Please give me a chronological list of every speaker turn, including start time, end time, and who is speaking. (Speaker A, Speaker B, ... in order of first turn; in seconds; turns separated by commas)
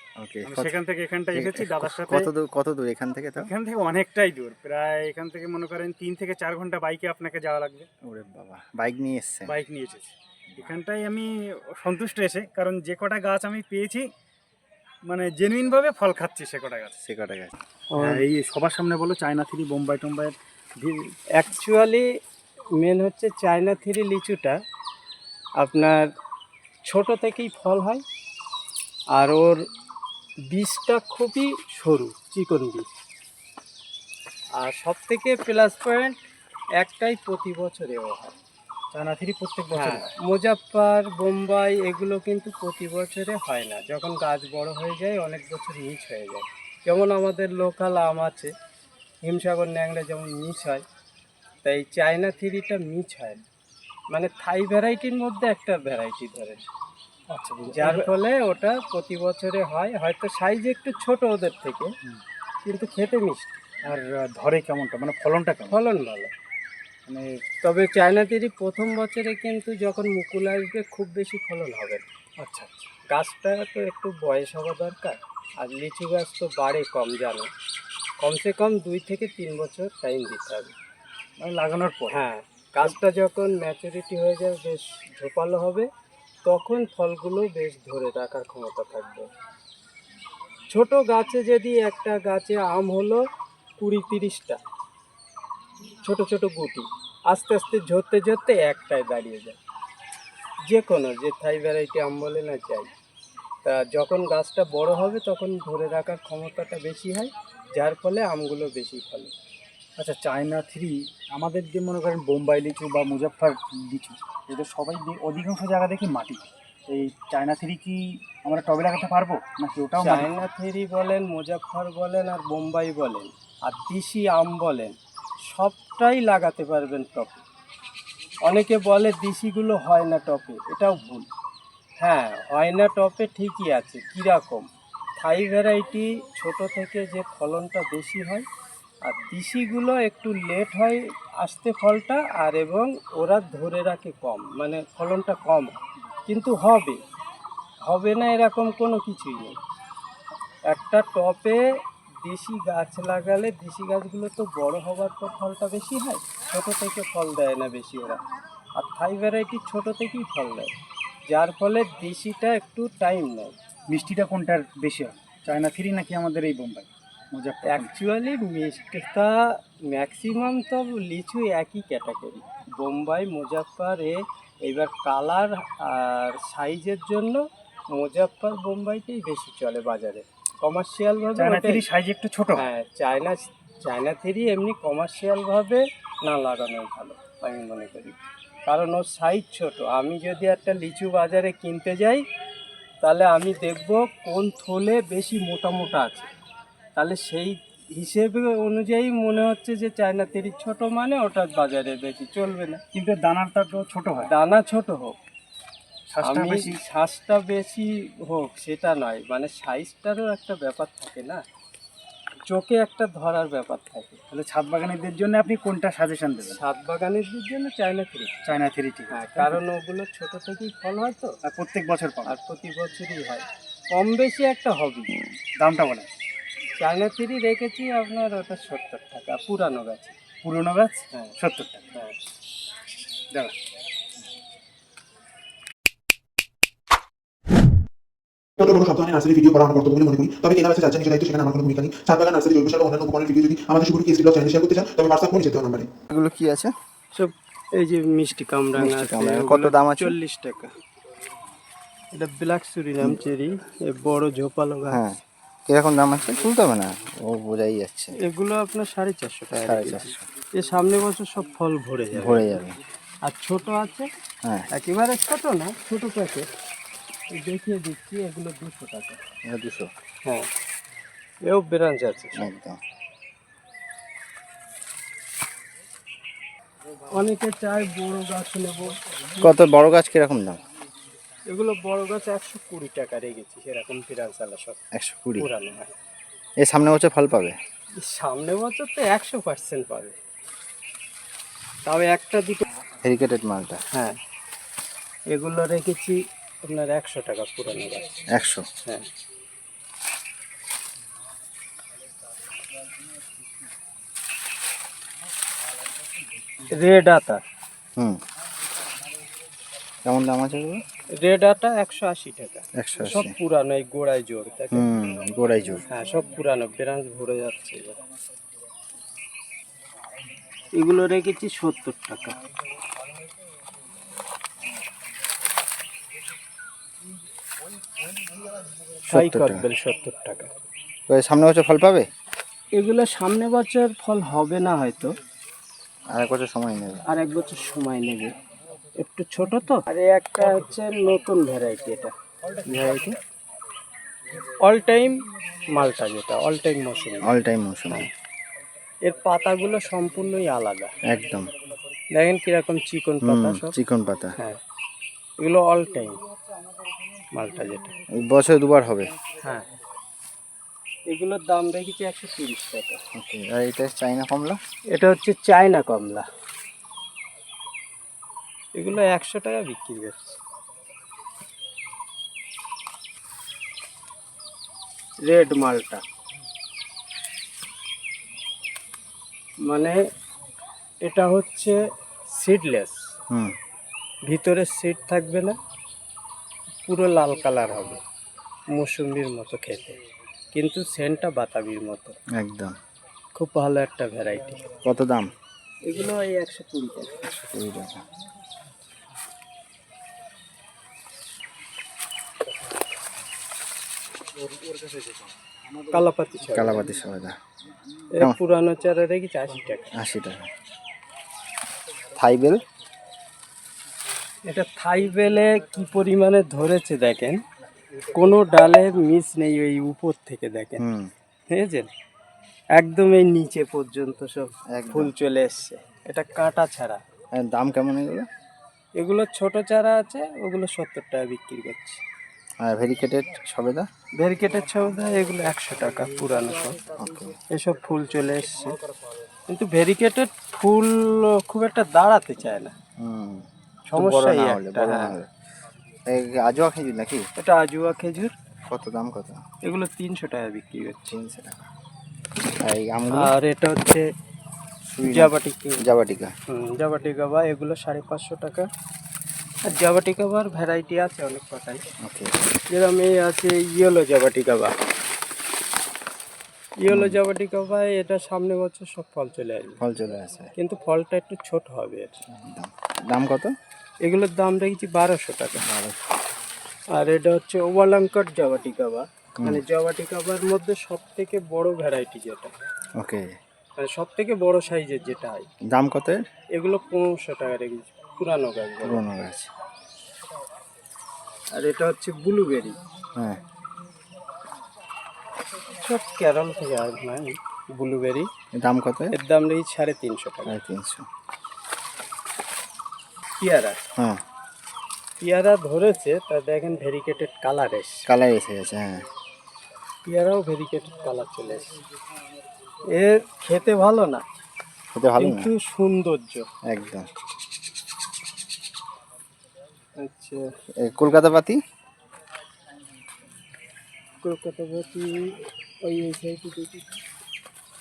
Speaker A: 0.2-0.8, Speaker B: 0.5-2.3, Speaker A: 1.3-3.5, Speaker B: 3.4-7.9, Speaker A: 8.0-9.6, Speaker B: 9.5-14.1, Speaker B: 15.0-17.0, Speaker A: 17.0-17.5, Speaker C: 17.9-18.2, Speaker B: 18.0-21.1, Speaker C: 21.4-22.1, Speaker C: 22.7-24.6, Speaker C: 25.6-26.1, Speaker C: 26.8-28.0, Speaker C: 29.1-29.6, Speaker C: 30.5-32.9, Speaker C: 34.6-36.2, Speaker C: 36.8-38.4, Speaker B: 38.9-40.1, Speaker C: 39.8-48.5, Speaker C: 49.2-50.8, Speaker C: 51.6-53.4, Speaker C: 54.1-56.6, Speaker B: 57.3-58.1, Speaker C: 57.7-61.9, Speaker C: 62.6-63.5, Speaker B: 63.9-65.8, Speaker C: 65.7-66.3, Speaker B: 67.1-67.4, Speaker C: 67.6-72.0, Speaker B: 72.4-72.9, Speaker C: 73.1-77.5, Speaker C: 78.2-80.7, Speaker B: 81.4-82.2, Speaker C: 82.1-85.9, Speaker C: 86.4-89.3, Speaker C: 90.7-93.2, Speaker C: 93.8-94.6, Speaker C: 96.0-99.6, Speaker C: 100.7-102.9, Speaker C: 103.6-109.3, Speaker B: 110.0-120.3, Speaker C: 120.0-127.4, Speaker C: 128.4-131.3, Speaker C: 132.0-138.5, Speaker C: 139.0-145.8, Speaker C: 146.3-147.0, Speaker C: 147.9-149.6, Speaker C: 150.7-151.6, Speaker C: 152.2-158.2, Speaker C: 158.8-160.7, Speaker C: 161.3-163.5, Speaker B: 163.9-167.9, Speaker C: 167.7-181.9, Speaker B: 181.4-182.7, Speaker C: 182.6-192.2, Speaker C: 193.0-196.3, Speaker C: 196.9-202.8, Speaker B: 202.9-204.3, Speaker C: 204.3-205.2, Speaker B: 206.1-206.8, Speaker C: 206.2-211.4, Speaker C: 212.5-214.2, Speaker B: 214.3-216.6, Speaker C: 216.4-218.4, Speaker B: 218.4-219.6, Speaker C: 219.1-221.4, Speaker B: 221.4-222.4, Speaker C: 222.3-225.1, Speaker B: 225.6-226.1, Speaker C: 226.8-230.2, Speaker B: 230.4-231.9, Speaker D: 238.6-245.9, Speaker A: 246.1-246.7, Speaker C: 247.1-250.7, Speaker A: 248.8-250.2, Speaker C: 252.1-255.0, Speaker A: 254.9-258.1, Speaker C: 258.2-262.6, Speaker A: 259.6-260.3, Speaker A: 262.1-262.8, Speaker C: 263.2-264.1, Speaker C: 264.7-266.5, Speaker C: 267.3-269.2, Speaker A: 269.5-269.9, Speaker C: 271.4-272.5, Speaker A: 272.4-272.8, Speaker C: 277.1-279.5, Speaker A: 279.4-280.6, Speaker C: 281.5-284.8, Speaker A: 284.9-285.5, Speaker C: 285.4-285.9, Speaker A: 286.6-287.6, Speaker C: 288.0-290.2, Speaker C: 291.9-292.6, Speaker A: 293.0-293.8, Speaker C: 293.9-294.2, Speaker C: 295.3-298.1, Speaker A: 298.4-298.6, Speaker C: 306.7-307.4, Speaker A: 310.0-310.8, Speaker C: 311.2-314.9, Speaker A: 312.8-313.3, Speaker A: 314.7-315.9, Speaker C: 315.9-318.0, Speaker C: 320.7-322.4, Speaker C: 329.1-330.5, Speaker A: 329.1-329.6, Speaker A: 331.1-332.1, Speaker C: 332.7-335.1, Speaker A: 336.1-337.0, Speaker C: 337.1-338.3, Speaker C: 339.0-343.2, Speaker C: 344.6-345.2, Speaker C: 345.7-347.3, Speaker A: 347.2-348.1, Speaker C: 349.0-350.9, Speaker A: 351.1-351.5, Speaker C: 352.1-353.8, Speaker A: 353.2-354.3, Speaker C: 355.4-356.2, Speaker C: 357.3-358.0, Speaker A: 358.1-359.2, Speaker C: 359.4-359.7, Speaker C: 361.1-363.0, Speaker A: 363.1-364.6, Speaker C: 364.9-366.3, Speaker C: 368.8-370.3, Speaker C: 375.3-376.0, Speaker C: 379.6-380.0, Speaker C: 381.0-381.8, Speaker C: 382.3-383.0, Speaker C: 384.3-385.6, Speaker C: 386.9-388.0, Speaker C: 388.7-390.0, Speaker C: 390.5-392.2, Speaker A: 392.4-392.8, Speaker C: 393.4-394.6, Speaker A: 394.8-395.3, Speaker C: 395.9-397.1, Speaker A: 397.2-398.0, Speaker B: 404.4-405.1, Speaker C: 405.9-406.8, Speaker A: 406.5-407.4, Speaker C: 408.1-409.9, Speaker A: 410.0-410.5, Speaker A: 412.1-412.6, Speaker C: 414.5-417.4, Speaker C: 418.1-420.8, Speaker A: 420.8-421.1, Speaker C: 421.5-421.9, Speaker C: 422.8-427.0, Speaker A: 424.7-425.1, Speaker A: 427.3-428.3, Speaker C: 429.0-432.0, Speaker A: 432.6-433.9, Speaker C: 434.2-436.9, Speaker A: 436.9-437.4, Speaker C: 437.5-438.8, Speaker C: 439.5-442.7, Speaker A: 443.0-445.3, Speaker C: 443.9-445.2, Speaker A: 446.1-447.2, Speaker C: 447.4-448.3, Speaker A: 448.7-449.4, Speaker C: 449.6-451.1, Speaker A: 451.1-451.7, Speaker A: 452.4-453.3, Speaker C: 453.1-454.1, Speaker A: 454.9-456.3, Speaker C: 455.0-455.9, Speaker C: 456.5-458.7, Speaker C: 459.6-461.8, Speaker A: 462.0-462.4, Speaker C: 462.7-464.7, Speaker C: 466.8-469.8, Speaker A: 466.9-467.2, Speaker A: 469.8-470.5, Speaker C: 470.6-472.2, Speaker A: 472.3-473.5, Speaker C: 474.0-475.7, Speaker A: 475.6-476.0, Speaker C: 476.9-482.5, Speaker A: 483.0-483.2, Speaker C: 483.8-485.5, Speaker A: 485.7-486.2, Speaker C: 486.5-489.0, Speaker A: 488.8-489.5, Speaker C: 491.6-492.8, Speaker A: 493.1-493.4, Speaker C: 495.6-498.3, Speaker A: 498.5-499.1, Speaker C: 499.1-500.6, Speaker A: 500.5-501.1, Speaker C: 503.4-503.8, Speaker A: 504.0-504.2, Speaker C: 505.2-508.1, Speaker A: 508.1-509.0, Speaker C: 510.1-511.8, Speaker C: 512.9-514.2, Speaker A: 514.9-515.5, Speaker C: 515.2-516.5, Speaker A: 516.7-517.1, Speaker C: 520.0-520.5, Speaker A: 520.8-521.6, Speaker C: 524.2-527.0